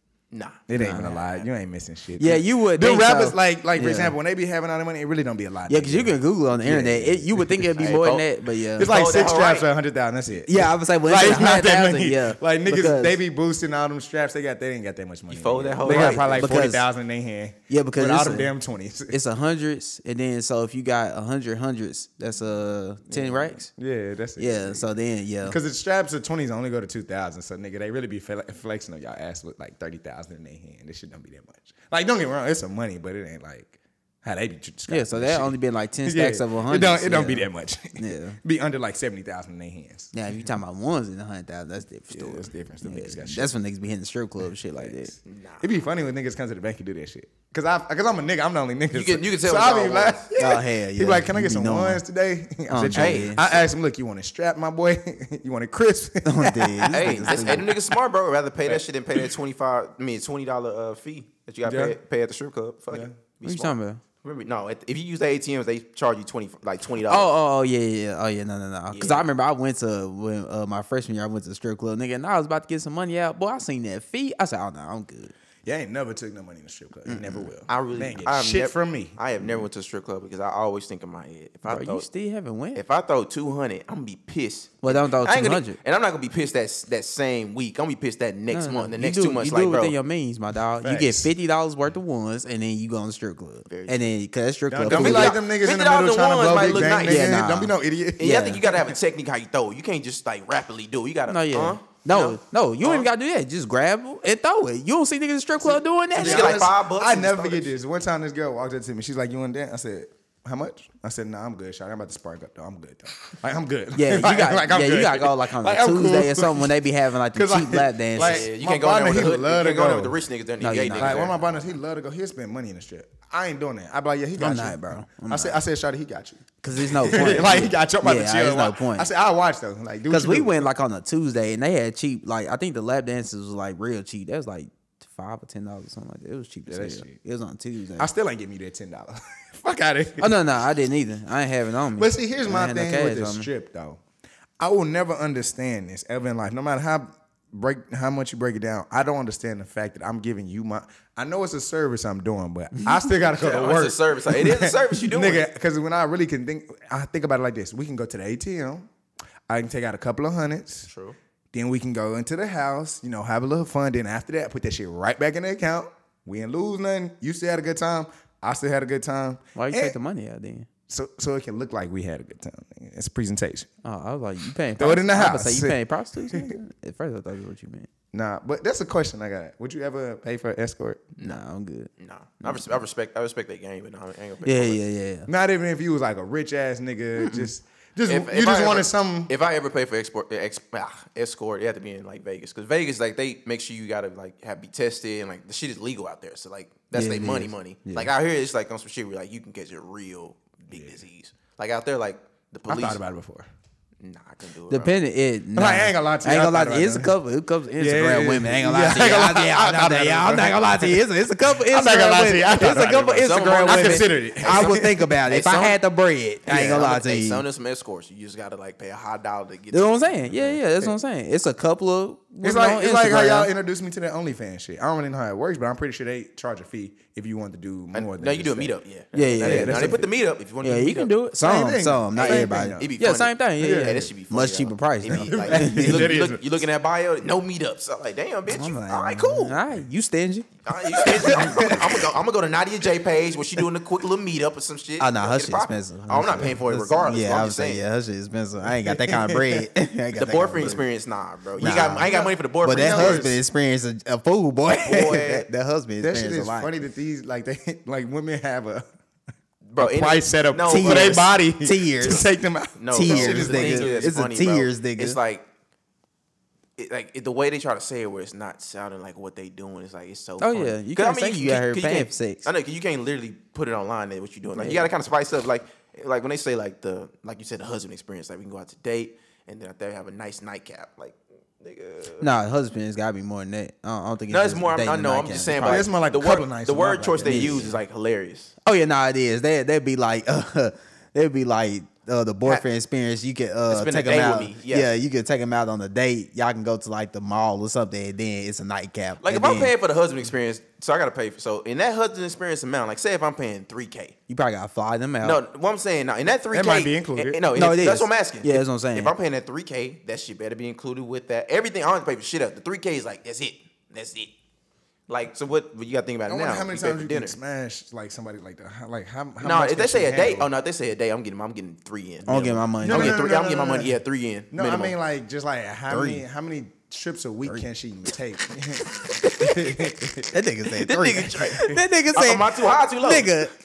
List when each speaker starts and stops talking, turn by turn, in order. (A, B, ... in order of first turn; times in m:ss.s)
0:00.3-0:01.4 A
0:00.7-0:08.0 B
0:00.8-0:01.2 C
0:02.2-0:04.2 C
0:05.7-0:08.9 C
0:07.8-0:08.2 A
0:08.8-0:19.2 B
0:08.8-0:09.7 A
0:10.5-0:13.2 C
0:15.3-0:16.6 A
0:15.8-0:16.8 C
0:17.7-0:18.5 C
0:19.1-0:23.7 C
0:23.1-0:24.9 B
0:24.4-0:25.6 C
0:25.4-0:40.1 B
0:34.9-0:38.4 C
0:40.1-0:45.1 C
0:42.1-0:43.5 B
0:44.8-0:57.8 B
0:45.3-0:45.7 A
0:48.9-0:50.3 A
0:50.4-0:52.0 C
0:52.7-0:53.4 C
0:52.9-0:53.6 A
0:56.2-0:57.7 C
0:56.9-1:07.3 A
1:01.6-1:02.0 B
1:02.9-1:03.2 B
1:03.4-1:04.0 C
1:07.1-1:15.3 C
1:08.9-1:09.3 A
1:15.6-1:19.2 B
1:17.1-1:17.5 C
1:17.7-1:22.1 A
1:21.7-1:22.8 C
1:22.8-1:30.0 A
1:24.8-1:25.8 C
1:28.5-1:35.4 C
1:30.8-1:31.3 B
1:33.7-1:34.1 A
1:34.7-1:39.0 B
1:34.9-1:37.4 A
1:37.1-1:38.6 C
1:38.2-1:43.1 A
1:41.3-1:46.6 C
1:46.2-1:47.7 A
1:46.2-1:56.8 B
1:54.0-1:58.5 C
1:57.3-2:00.2 B
1:58.2-2:01.6 A
2:00.6-2:01.3 C
2:01.0-2:06.4 B
2:04.4-2:05.6 C
2:06.6-2:09.1 C
2:07.0-2:10.7 B
2:10.1-2:18.1 C
2:16.7-2:17.2 B
2:18.0-2:20.4 B
2:20.2-2:23.5 C
2:22.0-2:24.0 B
2:24.6-2:38.9 B
2:33.3-2:35.4 A
2:39.5-2:40.9 B
2:40.9-2:41.2 A
2:41.5-2:50.0 B
2:49.6-2:50.7 C
2:50.9-2:53.7 B
2:53.8-2:57.9 C
2:54.8-2:56.6 B
2:58.1-3:01.1 B
3:01.2-3:01.9 C
3:02.0-3:04.8 A
3:04.4-3:05.3 C
3:05.3-3:09.3 B
3:07.2-3:07.5 C
3:08.1-3:23.0 A
3:16.9-3:18.1 C
3:20.7-3:21.0 B
3:22.7-3:23.5 B
3:24.0-3:25.0 A
3:24.7-3:37.4 C
3:25.6-3:27.1 B
3:27.8-3:34.9 B
3:33.1-3:35.8 A
3:36.5-3:40.6 A
3:36.5-3:36.9 B
3:39.7-3:43.5 C
3:42.4-3:48.7 B
3:47.9-3:51.1 A
3:49.2-3:50.1 C
3:49.4-3:50.1 B
3:50.6-3:56.1 C
3:51.4-3:52.9 B
3:52.2-3:59.6 A
3:53.6-3:54.1 B
3:55.1-3:56.4 B
3:58.5-4:01.8 C
4:00.6-4:07.8 A
4:01.0-4:01.8 B
4:05.0-4:10.8 C
4:08.6-4:09.7 B
4:10.2-4:13.3 A
4:11.6-4:12.1 C
4:11.8-4:13.4 B
4:12.6-4:16.7 C
4:14.8-4:15.5 A
4:16.0-4:18.8 B
4:19.7-4:21.3 A
4:19.8-4:24.1 B
4:20.7-4:22.3 C
4:22.8-4:25.5 A
4:22.9-4:25.2 C
4:26.8-4:42.3 A
4:30.4-4:32.4 C
4:34.6-4:34.9 C
4:42.2-4:45.9 C
4:44.3-4:48.5 A
4:45.6-4:47.7 B
4:47.2-4:47.7 C
4:48.6-4:59.7 C
4:53.7-4:54.9 A
4:59.2-5:04.2 A
5:04.3-5:05.4 C
5:05.2-5:14.3 A
5:06.5-5:07.4 B
5:07.5-5:09.1 C
5:15.1-5:17.4 A
5:16.3-5:20.5 B
5:19.4-5:25.0 A
5:22.3-5:23.2 C
5:22.8-5:24.0 B
5:24.5-5:30.3 B
5:25.9-5:26.2 C
5:29.2-5:29.8 C
5:30.3-5:33.5 C
5:30.7-5:33.4 A